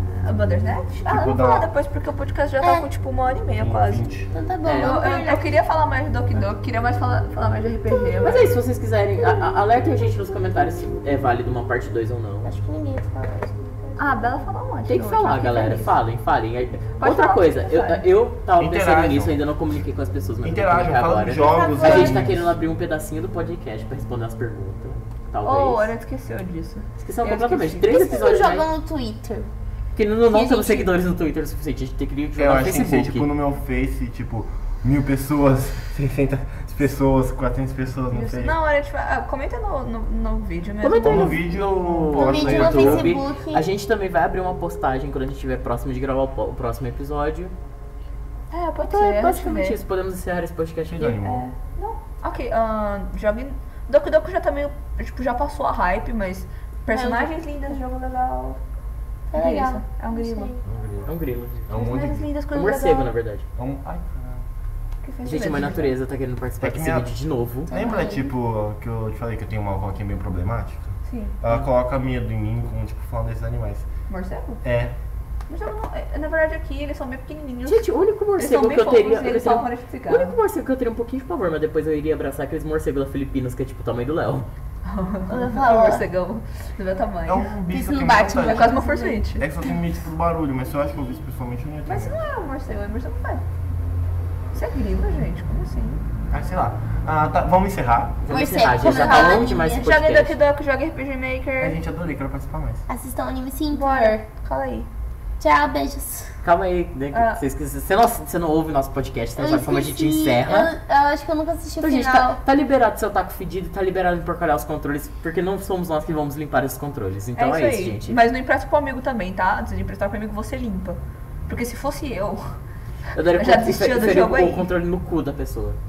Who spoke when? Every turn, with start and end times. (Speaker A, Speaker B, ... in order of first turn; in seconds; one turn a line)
Speaker A: 0.2-4.0
Speaker B: 1.1-1.7
Speaker C: 2.6-2.9
Speaker B: 3.6-4.3
Speaker C: 4.3-5.5
Speaker D: 4.7-5.0
Speaker A: 4.7-8.5
Speaker C: 7.9-8.6
Speaker D: 8.2-12.5
Speaker C: 9.2-10.2
Speaker C: 12.4-14.5
Speaker A: 14.0-16.0
Speaker D: 14.9-25.9
Speaker A: 17.0-18.0
Speaker B: 18.6-19.4
Speaker B: 20.4-22.5
Speaker C: 21.3-22.4
Speaker A: 25.4-27.9
Speaker D: 27.0-28.7
Speaker C: 27.9-29.5
Speaker D: 29.9-33.3
Speaker C: 30.3-30.9
Speaker B: 32.4-38.6
Speaker A: 38.1-41.4
Speaker D: 40.8-47.5
Speaker B: 41.0-43.2
Speaker C: 42.1-43.7
Speaker A: 48.5-49.8
Speaker D: 48.8-51.2
Speaker B: 50.9-51.5
Speaker A: 51.2-58.6
Speaker C: 56.9-57.4
Speaker C: 59.3-60.6
Speaker A: 59.3-60.5
Speaker B: 60.6-61.1
Speaker D: 61.1-61.7
Speaker B: 61.7-62.3
Speaker A: 61.7-63.1
Speaker D: 62.5-63.5
Speaker B: 63.6-64.4
Speaker A: 65.0-65.9
Speaker D: 65.2-67.7
Speaker B: 66.6-67.1
Speaker C: 67.7-68.3
Speaker B: 67.7-73.9
Speaker A: 71.1-71.4
Speaker A: 74.1-74.6
Speaker B: 74.6-75.0
Speaker A: 75.5-80.4
Speaker D: 77.7-84.5
Speaker A: 84.8-87.5
Speaker C: 85.3-86.1
Speaker B: 87.3-88.8
Speaker C: 87.7-89.2
Speaker A: 88.3-89.5
Speaker B: 89.4-92.2
Speaker A: 91.9-93.4
Speaker A: 94.5-96.0
Speaker B: 96.3-98.2
Speaker D: 98.2-100.3
Speaker C: 98.3-99.9
Speaker A: 98.8-101.8
Speaker B: 101.6-102.8
Speaker C: 102.9-104.2
Speaker A: 103.7-104.9
Speaker C: 105.4-106.4
Speaker D: 106.4-110.7
Speaker A: 107.1-107.4
Speaker C: 109.4-112.4
Speaker D: 111.8-118.2
Speaker A: 117.3-122.6
Speaker D: 123.1-125.8
Speaker A: 123.4-124.7